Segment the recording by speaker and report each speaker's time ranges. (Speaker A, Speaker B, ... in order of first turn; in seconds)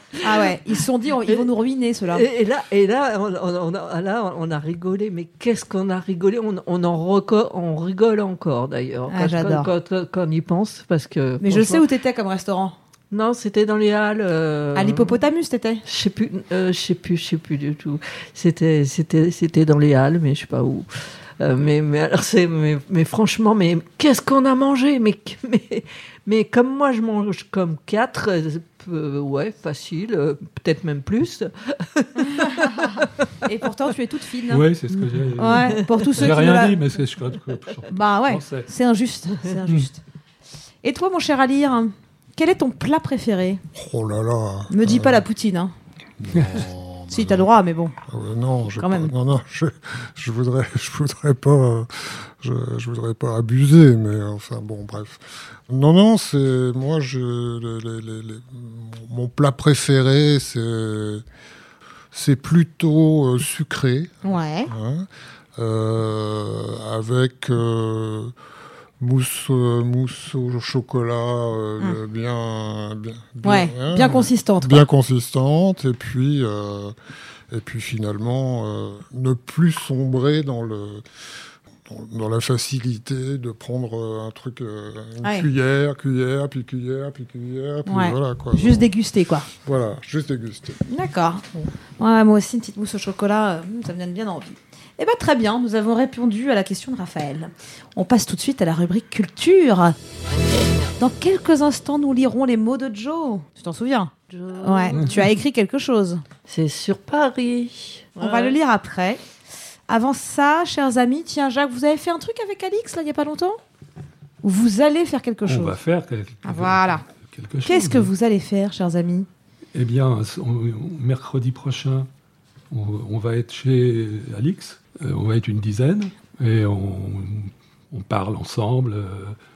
Speaker A: 0.2-0.5, 2.1-11.8, 13.1-15.2, 15.8-20.9, 21.4-33.3, 35.5-36.1, 104.3-105.3, 106.5-108.6
Speaker B: 0.2-2.2, 9.1-9.7, 11.4-12.8, 14.8-15.8, 32.8-34.6, 35.4-36.8, 37.9-40.0, 40.8-43.6, 44.7-45.7, 47.1-48.0, 48.8-49.1, 64.2-64.7, 73.4-74.8, 87.9-89.5, 90.9-91.5, 92.0-100.0, 101.0-106.2, 108.2-109.2, 109.9-113.6, 114.4-115.8, 116.5-117.0, 117.7-119.3
Speaker C: 34.5-38.7, 115.5-118.1, 119.7-122.1, 122.7-129.4
Speaker D: 43.8-45.2, 46.2-47.5, 48.1-61.2, 62.1-68.3, 69.0-77.0, 77.5-81.0, 81.8-88.9, 89.6-90.8